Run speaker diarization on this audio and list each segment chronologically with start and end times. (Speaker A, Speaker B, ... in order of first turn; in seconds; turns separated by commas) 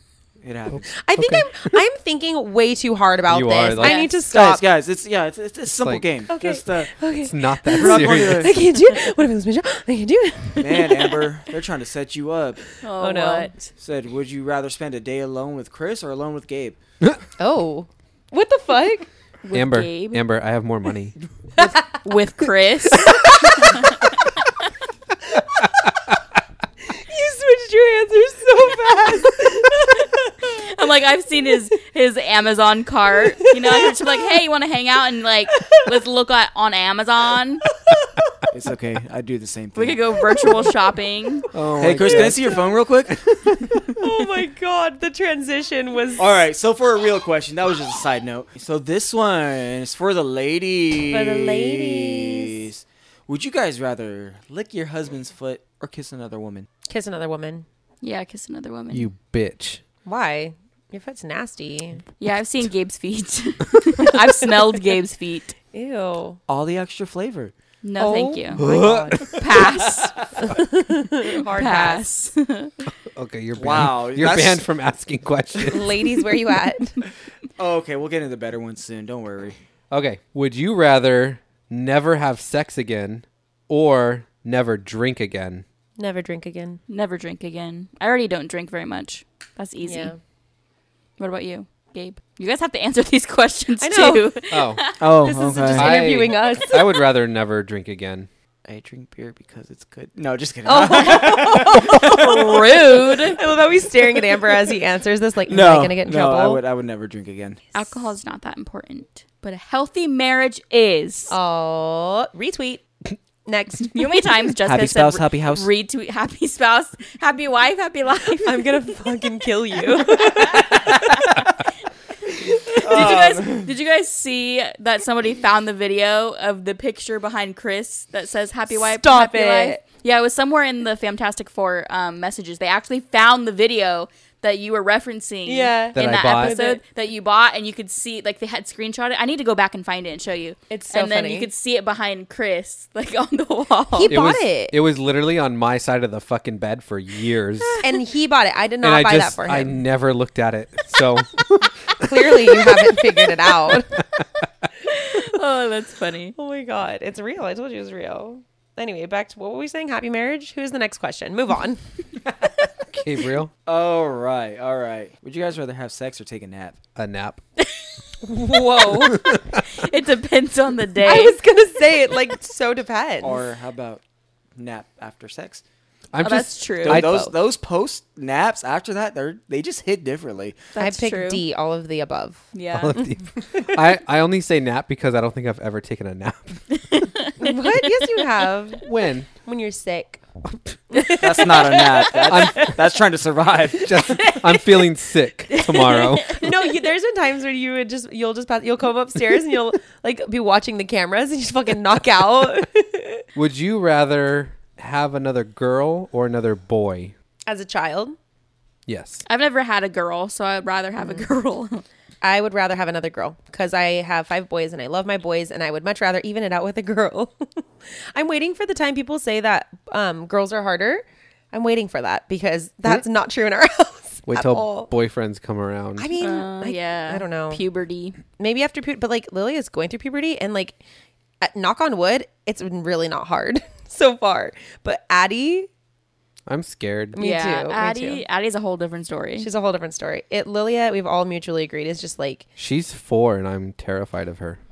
Speaker A: 0.4-0.9, Speaker B: 0.8-1.8, Speaker C: 0.9-4.6, Speaker B: 3.3-4.0, Speaker D: 3.8-4.1, Speaker A: 4.3-6.9, Speaker B: 5.7-6.0, Speaker C: 6.3-11.3, Speaker B: 7.2-8.6, Speaker A: 7.7-8.6, Speaker A: 10.6-12.6, Speaker D: 12.8-13.7, Speaker C: 13.0-13.5, Speaker A: 13.8-16.8, Speaker C: 17.4-19.1, Speaker D: 19.4-20.2, Speaker B: 19.5-21.2, Speaker C: 21.6-22.0, Speaker D: 22.0-24.1, Speaker C: 23.1-23.7, Speaker C: 26.8-30.4, Speaker D: 30.0-37.6, Speaker C: 33.4-33.9, Speaker C: 35.5-35.9, Speaker A: 38.5-40.0, Speaker D: 39.8-41.5, Speaker C: 40.3-40.7, Speaker B: 41.5-42.6, Speaker A: 41.8-43.1, Speaker C: 42.0-42.4, Speaker B: 43.1-43.8, Speaker C: 44.0-46.2, Speaker A: 46.2-56.7, Speaker C: 51.1-52.6, Speaker C: 56.9-57.7, Speaker D: 58.0-59.1, Speaker B: 58.9-59.8, Speaker C: 60.0-62.0, Speaker D: 62.2-65.5, Speaker C: 65.7-66.4, Speaker A: 66.5-67.5, Speaker D: 67.8-70.2, Speaker C: 68.0-72.1, Speaker B: 68.6-69.4, Speaker D: 71.3-72.9, Speaker B: 73.1-76.2, Speaker A: 73.6-74.6, Speaker C: 75.6-77.0, Speaker A: 77.6-79.6, Speaker B: 79.9-85.7, Speaker C: 86.0-86.8, Speaker D: 86.9-90.1, Speaker C: 89.8-90.2, Speaker D: 91.2-95.1, Speaker C: 93.8-94.3, Speaker B: 94.5-94.8, Speaker A: 95.0-96.0, Speaker C: 95.2-97.1, Speaker B: 95.8-98.3, Speaker A: 98.7-102.5, Speaker C: 100.7-106.6, Speaker D: 101.8-103.4, Speaker A: 105.5-107.6, Speaker D: 107.7-111.3, Speaker C: 111.3-112.8, Speaker C: 113.5-114.3, Speaker D: 113.9-118.9, Speaker A: 114.7-115.7, Speaker C: 118.4-121.0, Speaker D: 120.2-121.7, Speaker A: 120.9-121.3, Speaker D: 122.5-144.1, Speaker A: 122.8-123.7, Speaker C: 122.9-123.2, Speaker C: 128.7-129.8, Speaker C: 135.5-136.8, Speaker B: 135.9-136.6, Speaker C: 140.7-141.5, Speaker C: 143.9-144.7, Speaker B: 144.1-147.8, Speaker D: 147.6-147.8, Speaker C: 147.8-149.8, Speaker B: 148.8-152.9, Speaker C: 152.0-154.0, Speaker D: 154.9-156.4, Speaker C: 156.4-161.8, Speaker B: 162.9-163.5, Speaker A: 163.7-166.8, Speaker B: 167.0-167.4, Speaker D: 167.6-167.9, Speaker C: 168.2-169.3, Speaker D: 168.4-171.4, Speaker B: 169.1-169.6, Speaker C: 171.0-173.4, Speaker A: 173.2-174.0, Speaker A: 174.6-175.6, Speaker B: 176.1-177.3, Speaker D: 176.2-177.1, Speaker A: 176.8-180.7, Speaker D: 180.8-181.4, Speaker C: 180.8-182.5, Speaker D: 182.5-182.9, Speaker B: 182.7-186.6, Speaker D: 186.9-188.1, Speaker C: 187.4-188.9, Speaker B: 188.8-189.3, Speaker C: 189.4-190.2, Speaker C: 190.9-192.7, Speaker A: 191.2-193.9, Speaker B: 192.3-192.8, Speaker B: 193.8-196.5, Speaker C: 194.1-194.6, Speaker D: 195.5-196.5, Speaker C: 196.3-203.2, Speaker B: 203.3-207.1, Speaker C: 207.5-208.2, Speaker B: 208.9-209.2, Speaker D: 209.3-211.8, Speaker C: 211.0-211.3, Speaker C: 212.2-224.9, Speaker B: 224.3-226.1, Speaker C: 226.0-227.6, Speaker D: 226.2-228.2, Speaker C: 228.4-230.8, Speaker C: 231.4-235.7, Speaker B: 236.5-237.2, Speaker C: 237.2-238.2, Speaker D: 237.2-239.5, Speaker C: 239.4-242.5, Speaker B: 242.6-244.6